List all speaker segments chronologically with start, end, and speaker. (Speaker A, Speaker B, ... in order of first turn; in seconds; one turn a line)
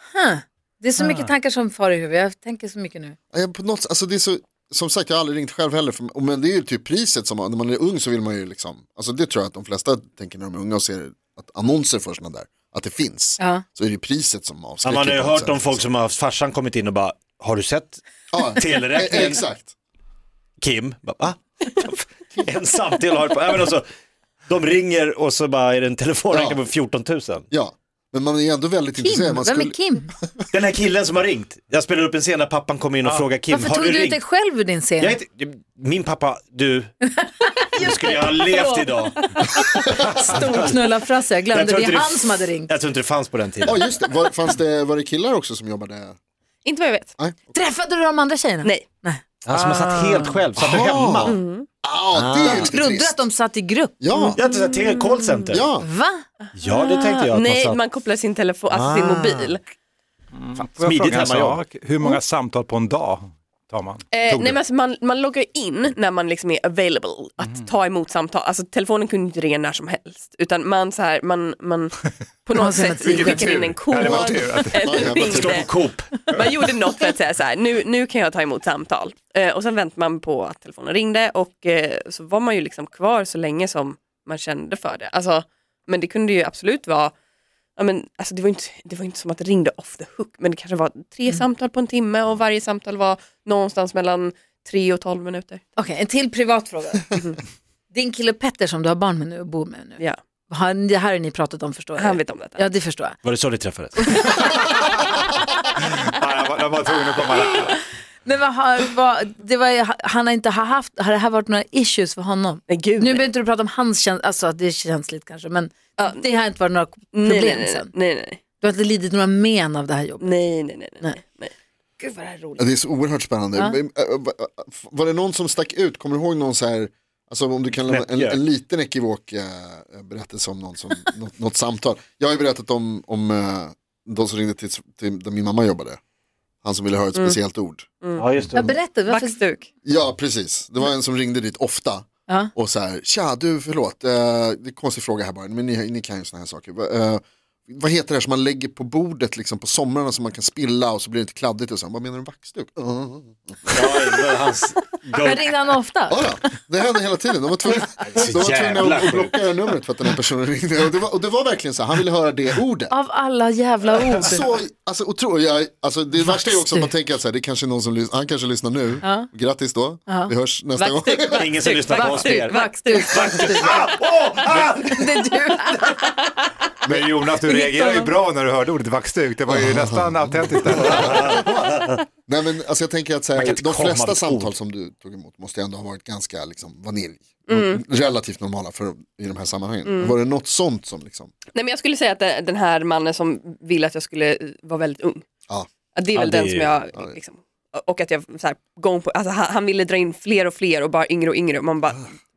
Speaker A: 0.1-3.2
Speaker B: 1.0-1.3
Speaker C: 3.3-15.8
Speaker A: 13.4-13.6
Speaker D: 14.8-18.0
Speaker C: 18.3-19.7
Speaker D: 18.6-19.4
Speaker D: 20.6-23.9
Speaker D: 24.5-27.5
Speaker C: 26.3-26.6
Speaker C: 27.5-30.4
Speaker A: 29.0-30.1
Speaker D: 30.5-34.2
Speaker A: 33.5-35.2
Speaker D: 35.0-36.9
Speaker A: 37.0-42.7
Speaker D: 37.8-39.7
Speaker D: 40.4-40.9
Speaker D: 41.5-43.8
Speaker C: 43.6-46.2
Speaker E: 46.6-47.1
Speaker C: 47.2-47.6
Speaker A: 47.5-49.2
Speaker D: 49.4-51.4
Speaker B: 49.5-50.0
Speaker C: 50.6-53.3
Speaker E: 51.3-51.7
Speaker D: 52.1-52.7
Speaker A: 52.5-54.3
Speaker C: 54.0-54.4
Speaker D: 54.4-55.6
Speaker E: 54.5-55.6
Speaker C: 55.5-55.9
Speaker A: 55.8-56.2
Speaker E: 56.5-59.6
Speaker D: 56.5-57.8
Speaker D: 58.7-59.5
Speaker B: 60.4-64.6
Speaker D: 60.7-61.6
Speaker E: 64.1-87.1
Speaker B: 67.4-67.7
Speaker A: 72.5-73.5
Speaker B: 73.0-75.3
Speaker C: 74.0-75.7
Speaker D: 75.2-76.1
Speaker E: 87.8-95.6
Speaker A: 95.8-97.2
Speaker A: 97.9-103.2
Speaker E: 102.0-102.7
Speaker D: 103.2-104.2
Speaker A: 104.0-104.6
Speaker B: 106.0-107.8
Speaker A: 108.2-117.9
Speaker E: 112.7-113.3
Speaker E: 117.1-118.4
Speaker A: 118.6-120.4
Speaker E: 120.2-121.5
Speaker A: 122.0-122.6
Speaker C: 122.6-136.0
Speaker D: 127.9-128.4
Speaker C: 136.6-137.9
Speaker E: 138.0-138.3
Speaker D: 138.2-138.7
Speaker A: 138.5-139.4
Speaker E: 139.1-139.7
Speaker C: 139.8-153.8
Speaker A: 142.3-142.5
Speaker D: 153.7-155.7
Speaker A: 155.1-156.3
Speaker C: 156.1-162.9
Speaker D: 157.9-159.4
Speaker A: 162.9-164.6
Speaker C: 164.2-171.6
Speaker A: 166.2-166.9
Speaker A: 169.0-169.3
Speaker A: 170.1-173.9
Speaker E: 171.3-173.4
Speaker D: 171.3-175.0
Speaker A: 174.5-176.1
Speaker C: 176.8-177.1
Speaker B: 176.9-181.4
Speaker A: 177.5-178.1
Speaker C: 179.5-181.4
Speaker D: 180.7-182.0
Speaker C: 182.3-191.3
Speaker D: 183.3-184.6
Speaker E: 187.5-187.8
Speaker E: 189.9-190.2
Speaker E: 191.5-195.2
Speaker E: 195.9-202.1
Speaker D: 196.1-196.8